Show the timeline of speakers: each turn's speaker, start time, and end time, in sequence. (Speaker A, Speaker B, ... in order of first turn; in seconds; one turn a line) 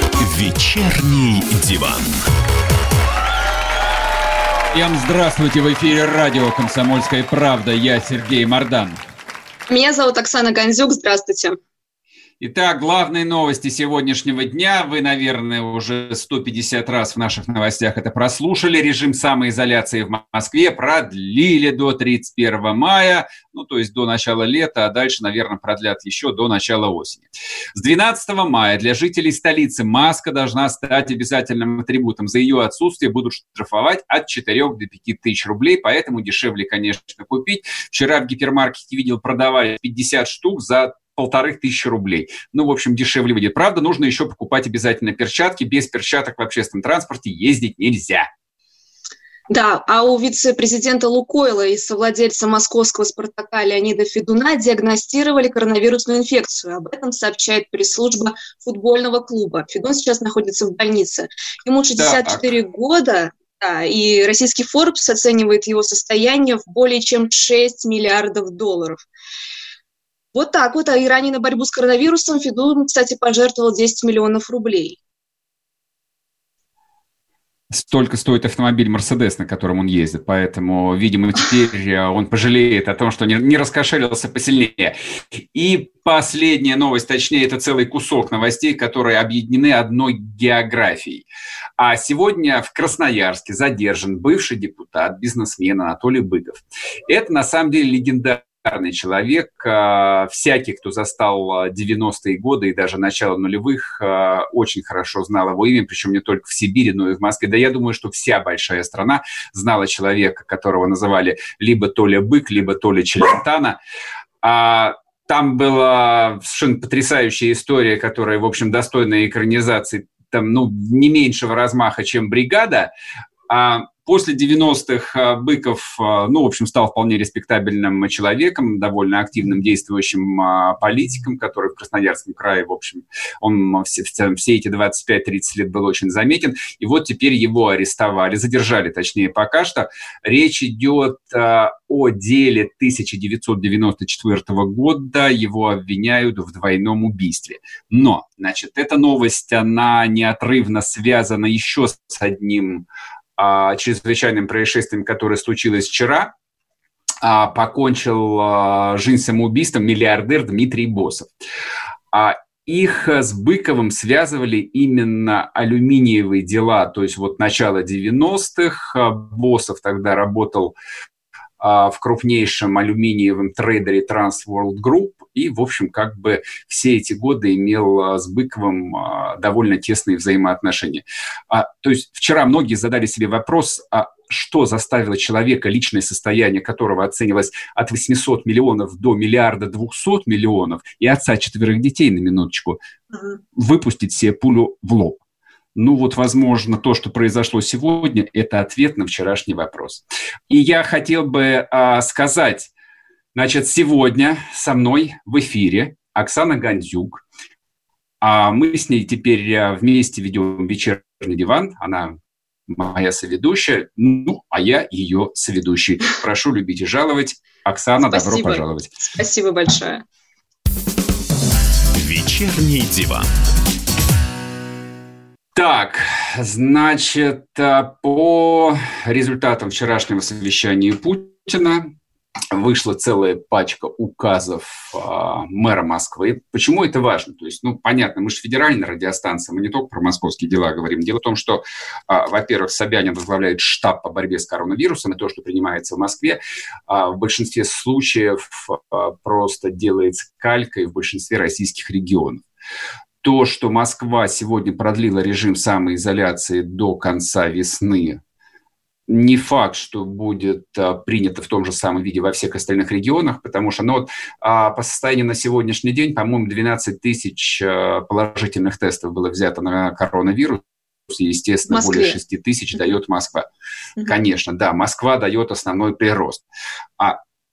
Speaker A: 0.2-2.2
Speaker B: 4.7-9.0
Speaker C: 9.7-11.6
Speaker B: 12.4-48.3
Speaker C: 49.5-69.0
Speaker B: 62.0-62.5
Speaker C: 70.3-75.0
Speaker B: 77.7-84.9
Speaker B: 85.5-91.2
Speaker B: 91.8-113.8
Speaker B: 114.4-122.9
Speaker B: 123.5-152.8
Speaker B: 153.4-156.3
Speaker B: 157.2-161.3
Speaker B: 162.1-170.7
Speaker B: 171.6-192.8
Speaker B: 193.6-195.2
Speaker B: 195.8-202.7
Speaker B: 203.3-207.2
Speaker B: 208.2-212.2
Speaker B: 212.7-218.9
Speaker C: 218.1-220.0
Speaker A: 221.9-223.3
Speaker B: 225.6-231.9
Speaker B: 232.5-252.4
Speaker B: 253.2-258.2
Speaker B: 259.1-273.5
Speaker C: 271.7-272.2
Speaker B: 274.1-276.4